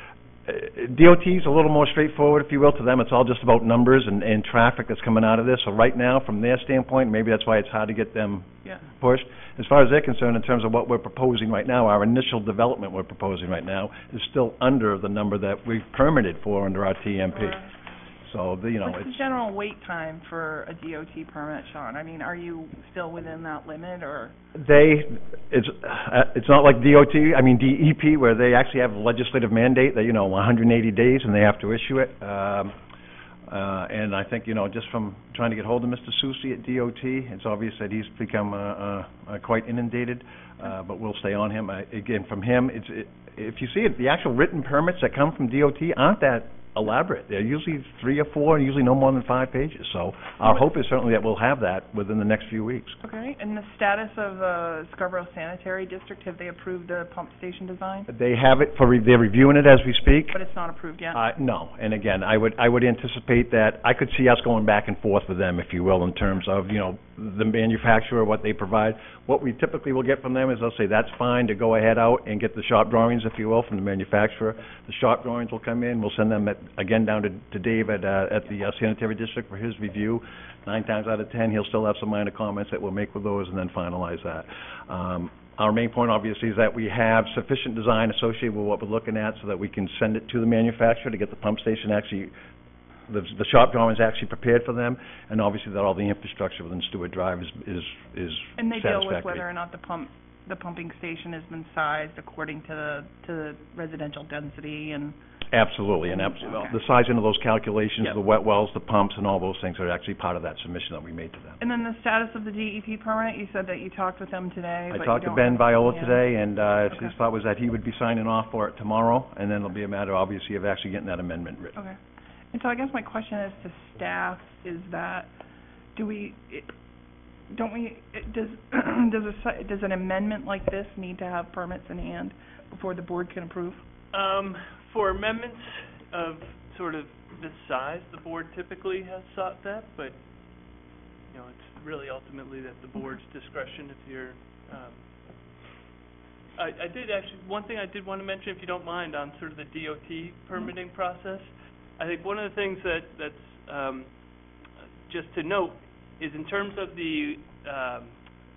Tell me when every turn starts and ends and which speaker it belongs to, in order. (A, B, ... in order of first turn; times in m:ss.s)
0:00.4-0:17.6 A
0:18.2-0:19.2 A
0:18.8-0:24.3 B
0:24.5-0:32.8 A
0:33.5-0:53.0 A
0:53.0-0:58.1 B
0:58.1-1:00.4 A
1:00.3-1:01.2 B
1:01.1-1:32.3 A
1:33.1-1:39.4 A
1:38.6-1:45.2 B
1:45.5-1:51.6 A
1:46.1-1:46.8 B
1:51.6-1:56.2 B
1:54.9-2:01.8 A
2:02.5-2:05.3 B
2:06.0-2:06.7 B
2:07.5-2:13.8 B
2:14.1-2:20.2 C
2:21.3-2:25.0 C
2:26.6-2:34.1 C
2:35.1-2:38.1 C